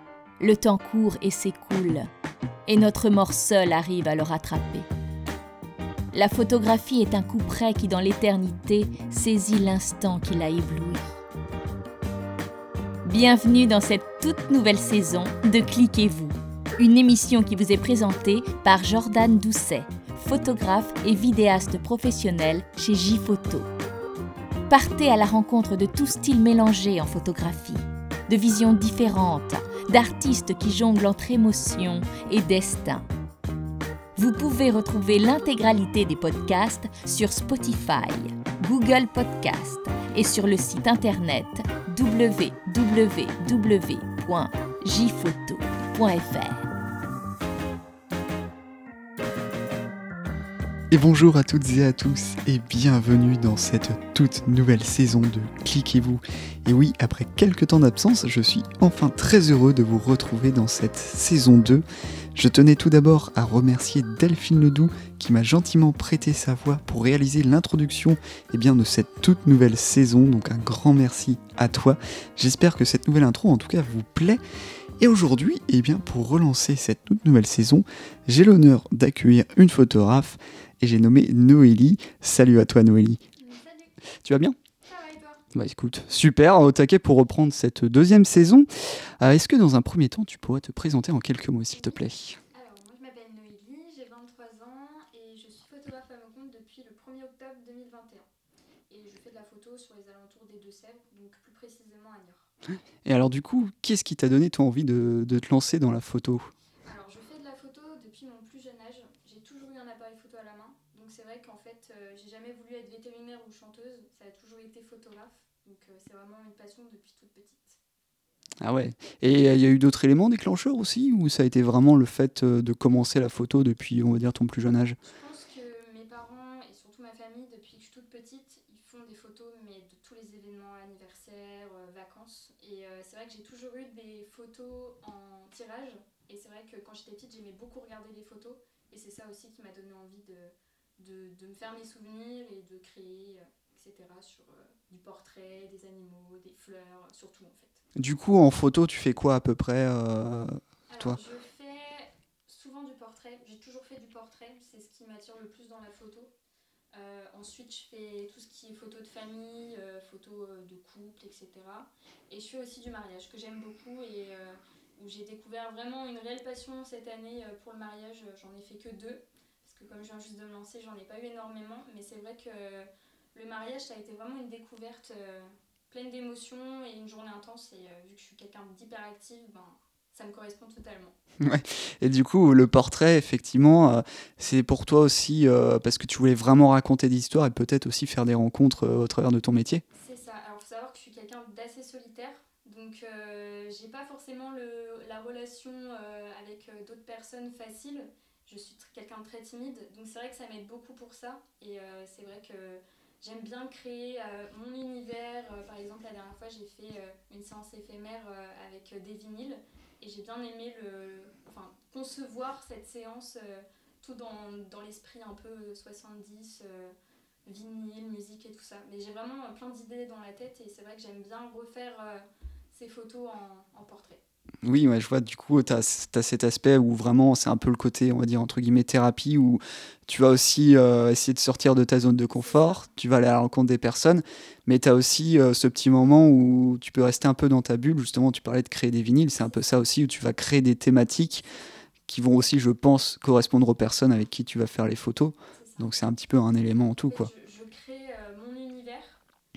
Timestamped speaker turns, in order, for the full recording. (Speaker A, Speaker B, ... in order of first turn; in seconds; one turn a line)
Speaker A: 0.4-2.1
Speaker A: 2.7-4.9
Speaker A: 6.1-11.0
Speaker A: 13.0-23.7
Speaker A: 24.7-33.0
Speaker A: 34.2-46.6
Speaker B: 50.9-61.8
Speaker B: 62.4-74.4
Speaker B: 75.0-83.2
Speaker C: 83.4-83.9
Speaker B: 84.2-84.6
Speaker C: 84.8-85.4
Speaker B: 85.5-88.7
Speaker B: 89.2-92.4
Speaker C: 91.7-98.3
Speaker C: 98.9-102.5
Speaker B: 103.0-106.5
Speaker C: 106.9-117.8
Speaker B: 118.6-125.0
Speaker C: 125.0-147.8
Speaker B: 148.0-151.2
Speaker C: 150.9-156.3
Speaker C: 156.9-181.1
Speaker B: 181.4-189.8
Speaker C: 189.9-216.9
Speaker C: 217.4-224.2
Speaker B: 224.6-241.4
Speaker C: 232.3-232.9
Speaker C: 239.4-239.6
Speaker C: 241.5-241.9
Speaker B: 242.1-247.3
Speaker C: 245.5-245.9
Speaker C: 247.0-249.2